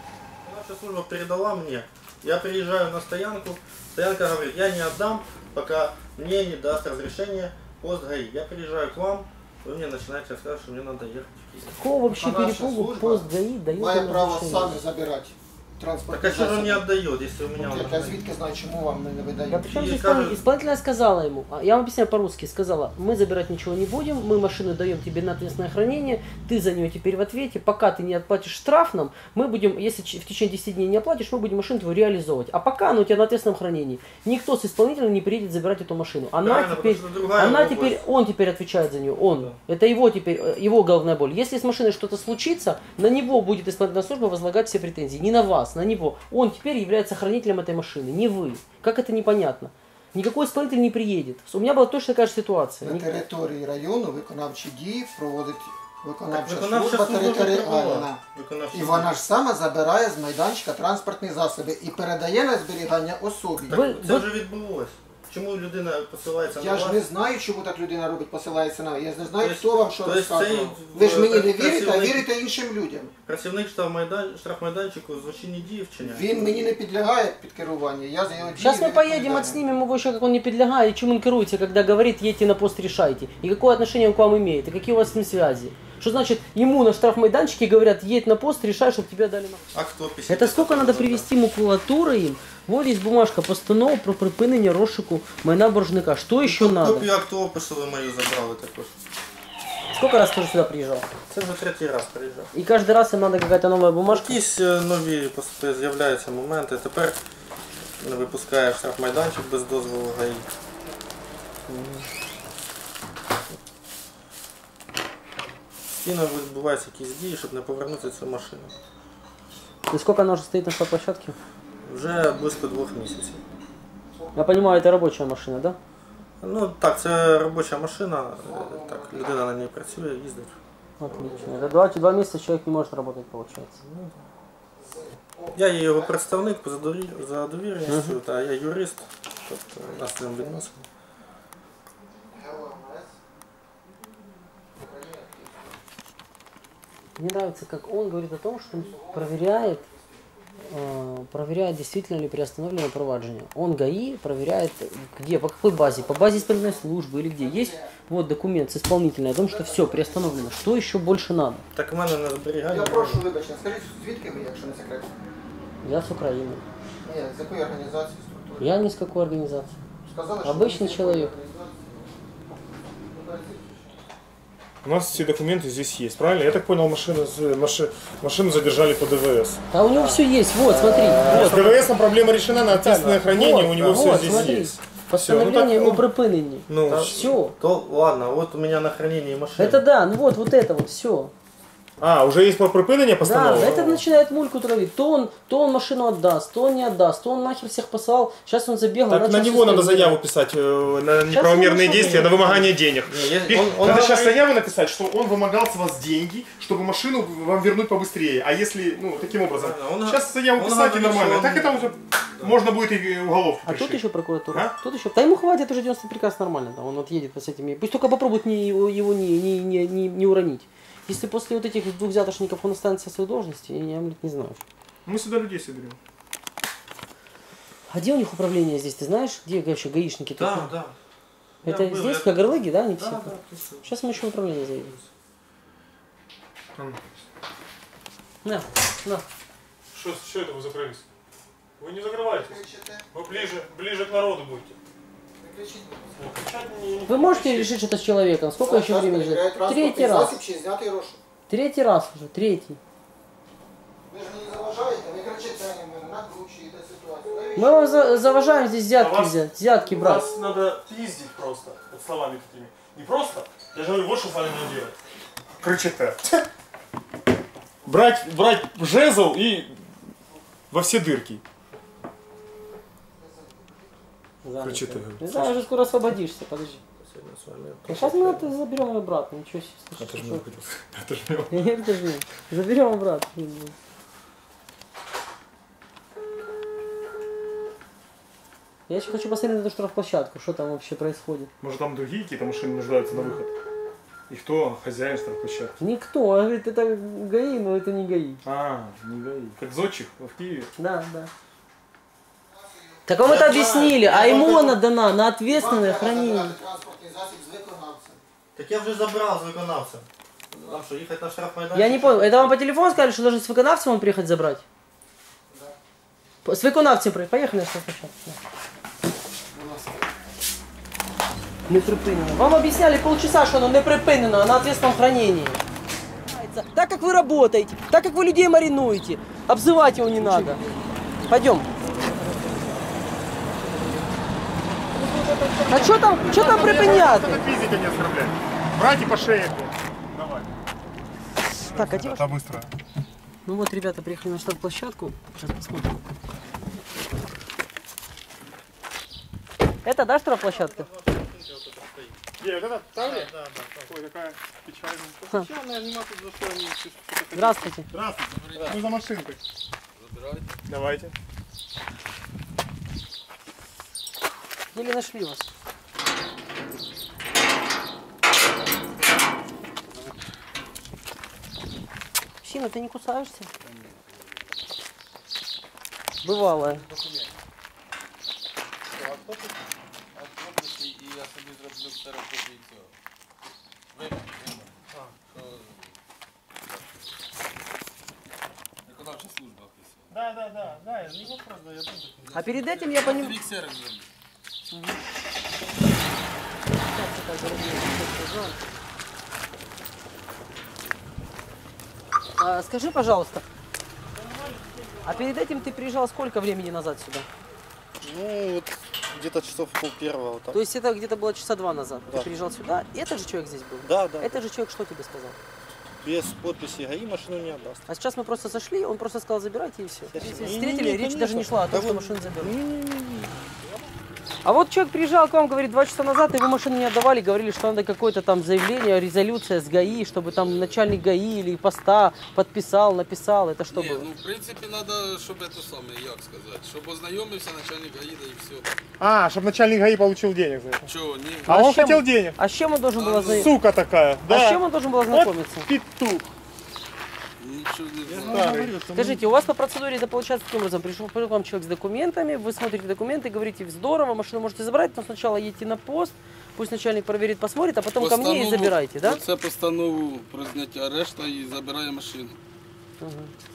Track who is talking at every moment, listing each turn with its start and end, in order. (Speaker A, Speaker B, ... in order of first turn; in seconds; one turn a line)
Speaker A: 0.4-11.8
Speaker B: 11.7-14.8
Speaker C: 12.0-16.9
Speaker A: 16.1-18.2
Speaker C: 17.5-19.7
Speaker B: 19.5-53.1
Speaker A: 19.7-20.4
Speaker A: 36.4-38.0
Speaker C: 52.8-63.8
Speaker A: 56.3-59.2
Speaker A: 63.7-67.0
Speaker B: 63.7-64.3
Speaker C: 66.5-73.1
Speaker A: 69.4-72.3
Speaker A: 73.2-76.5
Speaker C: 76.0-79.6
Speaker B: 78.6-89.7
Speaker A: 89.7-91.2
Speaker B: 90.3-97.1
Speaker A: 96.4-98.9
Speaker B: 99.9-101.1
Speaker A: 101.3-102.5
Speaker B: 102.5-104.4
Speaker A: 104.1-107.2
Speaker A: 108.0-110.5
Speaker B: 111.7-112.0
Speaker A: 115.9-118.7
Speaker B: 119.9-121.3
Speaker A: 121.8-123.4
Speaker C: 124.1-124.6
Speaker B: 124.3-125.8
Speaker A: 126.4-131.4
Speaker C: 128.4-129.4
Speaker B: 131.0-133.8
Speaker C: 131.1-131.8
Speaker A: 133.8-134.2
Speaker C: 134.8-136.2
Speaker A: 135.5-140.8
Speaker B: 137.9-138.2
Speaker C: 142.3-143.2
Speaker C: 144.8-145.7
Speaker B: 147.2-149.8
Speaker C: 148.8-150.2
Speaker B: 150.6-161.6
Speaker C: 155.7-157.9
Speaker C: 159.5-160.7
Speaker A: 161.7-163.2
Speaker C: 162.7-165.1
Speaker B: 165.8-166.6
Speaker C: 167.0-168.7
Speaker B: 168.6-169.7
Speaker C: 170.1-172.1
Speaker B: 170.4-171.3
Speaker C: 173.1-173.7
Speaker D: 174.8-179.6
Speaker B: 179.7-181.9
Speaker D: 180.8-186.1
Speaker B: 182.7-187.5
Speaker A: 183.8-184.5
Speaker D: 186.7-187.3
Speaker A: 186.7-189.8
Speaker B: 189.6-191.3
Speaker D: 192.0-193.9
Speaker B: 193.2-200.2
Speaker D: 199.1-214.0
Speaker B: 201.3-202.3
Speaker A: 202.0-204.4
Speaker A: 209.2-212.6
Speaker B: 213.7-224.6
Speaker D: 225.1-226.0
Speaker B: 227.9-230.7
Speaker A: 230.4-230.9
Speaker A: 231.6-235.1
Speaker B: 231.6-234.9
Speaker B: 238.4-239.2
Speaker D: 239.9-241.0
Speaker D: 241.8-242.6
Speaker C: 242.3-243.1
Speaker D: 243.1-244.8
Speaker C: 245.4-246.3
Speaker D: 246.2-247.7
Speaker B: 247.1-250.4
Speaker C: 248.6-251.2
Speaker B: 251.5-252.8
Speaker C: 254.1-258.4
Speaker B: 257.5-260.2
Speaker D: 259.0-265.0
Speaker D: 265.6-266.5
Speaker D: 267.8-269.8
Speaker D: 270.7-271.4
Speaker C: 273.2-273.8
Speaker B: 274.4-276.8
Speaker D: 274.6-275.6
Speaker A: 277.0-278.5
Speaker B: 277.9-280.4
Speaker D: 280.0-281.7
Speaker B: 281.5-283.7
Speaker B: 288.9-291.5
Speaker D: 291.6-293.5
Speaker B: 293.1-293.4
Speaker D: 294.3-295.8
Speaker B: 295.8-298.4
Speaker D: 298.4-300.7
Speaker B: 300.8-301.3
Speaker C: 302.6-303.0
Speaker B: 303.1-306.6
Speaker A: 303.2-304.8
Speaker C: 305.5-308.2
Speaker A: 308.5-312.6
Speaker B: 311.7-314.6
Speaker C: 315.5-315.8
Speaker B: 316.4-318.4
Speaker C: 319.5-320.1
Speaker B: 321.7-325.6
Speaker B: 326.2-330.6
Speaker B: 331.3-331.7
Speaker D: 335.0-340.6
Speaker B: 335.7-337.4
Speaker B: 341.6-342.4
Speaker D: 341.6-342.7
Speaker B: 343.4-345.9
Speaker B: 349.8-350.9
Speaker A: 350.3-352.2
Speaker D: 352.4-353.3
Speaker A: 352.9-353.9
Speaker D: 353.9-355.3
Speaker A: 355.3-357.6
Speaker B: 357.3-357.9
Speaker D: 357.9-359.4
Speaker E: 360.0-360.6
Speaker D: 360.7-361.1
Speaker B: 364.7-365.5
Speaker B: 372.4-373.5
Speaker E: 373.6-374.2
Speaker B: 376.2-376.8
Speaker E: 376.4-377.3
Speaker A: 378.9-379.6
Speaker E: 380.1-382.9
Speaker E: 383.9-384.7
Speaker A: 384.9-385.1
Speaker E: 385.3-385.9
Speaker E: 388.9-390.1
Speaker A: 390.1-392.5
Speaker B: 392.3-393.4
Speaker E: 392.4-394.1
Speaker B: 394.7-395.0
Speaker B: 396.9-398.6
Speaker B: 402.4-403.4
Speaker D: 404.3-404.9
Speaker B: 405.0-407.3
Speaker A: 408.0-410.6
Speaker B: 410.5-415.4
Speaker A: 413.8-414.4
Speaker A: 416.0-417.9
Speaker B: 417.9-422.5
Speaker A: 420.1-423.6
Speaker B: 424.4-434.1
Speaker E: 429.8-430.8
Speaker E: 433.7-438.7
Speaker D: 439.0-440.9
Speaker E: 440.8-441.6
Speaker D: 441.4-442.4
Speaker B: 441.5-443.5
Speaker E: 443.0-443.5
Speaker D: 443.3-444.6
Speaker B: 444.3-445.7
Speaker D: 445.1-446.3
Speaker E: 447.4-448.4
Speaker A: 448.1-449.3
Speaker D: 448.2-448.7
Speaker B: 448.9-459.2
Speaker E: 458.0-462.4
Speaker B: 463.0-463.3